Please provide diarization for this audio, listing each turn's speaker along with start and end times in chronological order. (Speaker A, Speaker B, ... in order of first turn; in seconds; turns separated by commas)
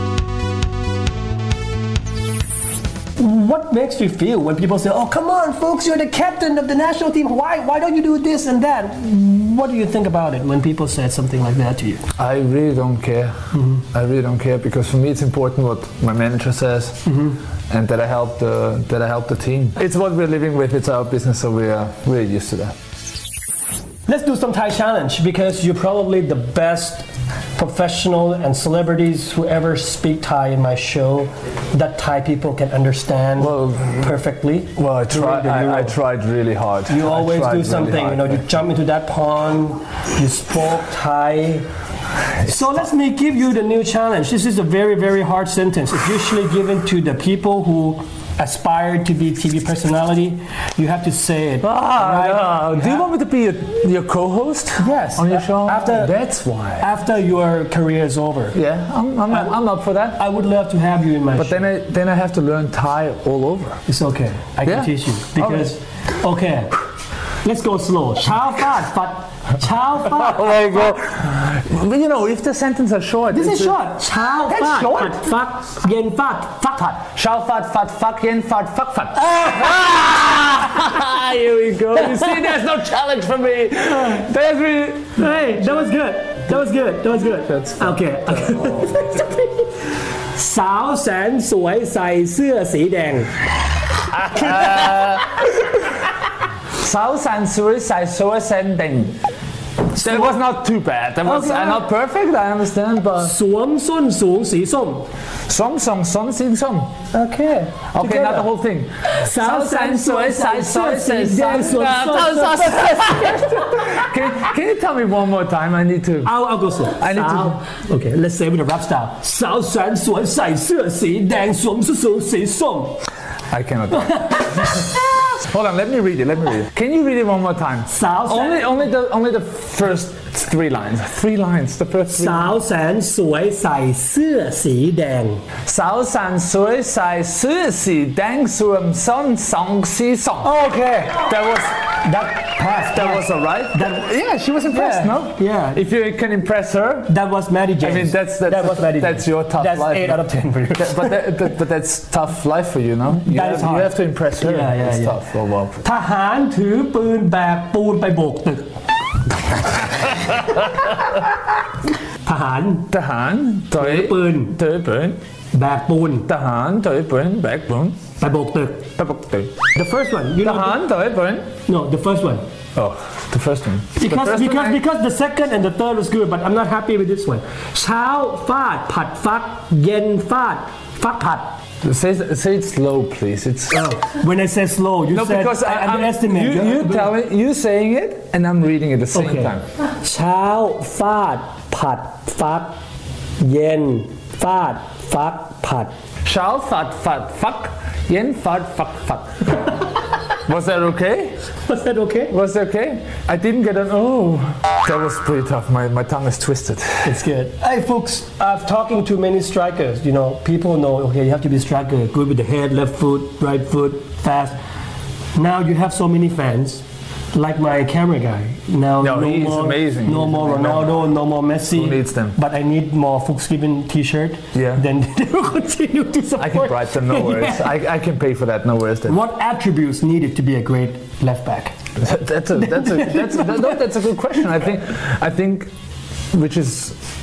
Speaker A: 3.2-12.0, Speaker B: 12.2-17.1, Speaker A: 13.5-13.8, Speaker A: 17.1-17.4, Speaker B: 17.7-22.7, Speaker A: 24.1-36.0, Speaker B: 33.4-34.1, Speaker B: 34.8-38.4, Speaker A: 36.9-41.7, Speaker A: 42.4-53.1, Speaker B: 51.6-56.9, Speaker A: 54.8-56.1, Speaker A: 56.8-58.6, Speaker B: 58.5-60.2, Speaker A: 59.3-59.6, Speaker A: 60.2-61.7, Speaker B: 61.4-63.8, Speaker A: 63.9-66.7, Speaker B: 64.7-65.7, Speaker A: 67.4-70.7, Speaker B: 70.0-73.8, Speaker A: 73.3-77.0, Speaker B: 74.5-75.1, Speaker B: 77.2-85.8, Speaker A: 79.2-79.7, Speaker A: 85.2-93.4, Speaker B: 87.5-89.0, Speaker A: 94.1-95.2, Speaker B: 94.2-95.8, Speaker B: 96.8-99.2, Speaker B: 100.0-103.4, Speaker A: 100.0-100.4, Speaker A: 101.2-101.9, Speaker A: 103.2-105.1, Speaker B: 105.5-106.9, Speaker A: 107.1-108.5, Speaker B: 107.9-116.3, Speaker A: 109.1-113.9, Speaker A: 116.2-123.0, Speaker B: 116.8-117.6, Speaker B: 123.5-132.5, Speaker A: 124.0-124.9, Speaker A: 127.9-128.7, Speaker A: 132.1-135.4, Speaker B: 135.7-140.5, Speaker A: 140.4-141.3, Speaker B: 141.1-142.0, Speaker A: 142.0-144.1, Speaker B: 142.9-147.1, Speaker A: 144.7-145.8, Speaker A: 147.1-151.2, Speaker B: 147.8-155.8, Speaker A: 153.2-155.2, Speaker A: 155.8-158.7, Speaker A: 160.0-160.4, Speaker B: 160.4-161.2, Speaker A: 162.2-162.9, Speaker B: 162.9-165.2, Speaker A: 163.8-164.6, Speaker A: 165.5-166.3, Speaker B: 166.3-168.0, Speaker A: 168.2-168.8, Speaker B: 169.0-169.5, Speaker A: 169.7-170.8, Speaker B: 170.4-171.5, Speaker A: 171.7-172.4, Speaker B: 172.8-174.8, Speaker A: 174.0-181.5, Speaker B: 181.8-183.9, Speaker A: 183.7-187.1, Speaker B: 185.1-189.6, Speaker A: 189.1-192.7, Speaker A: 193.4-195.9, Speaker B: 196.2-199.8, Speaker B: 200.5-201.4, Speaker A: 201.6-202.3, Speaker B: 202.3-207.2, Speaker A: 207.0-214.6, Speaker A: 215.3-227.7, Speaker B: 219.0-221.0, Speaker B: 221.7-222.4, Speaker B: 224.5-224.8, Speaker B: 226.4-229.2, Speaker A: 229.1-231.8, Speaker B: 232.0-235.7, Speaker A: 233.0-233.7, Speaker B: 236.3-237.0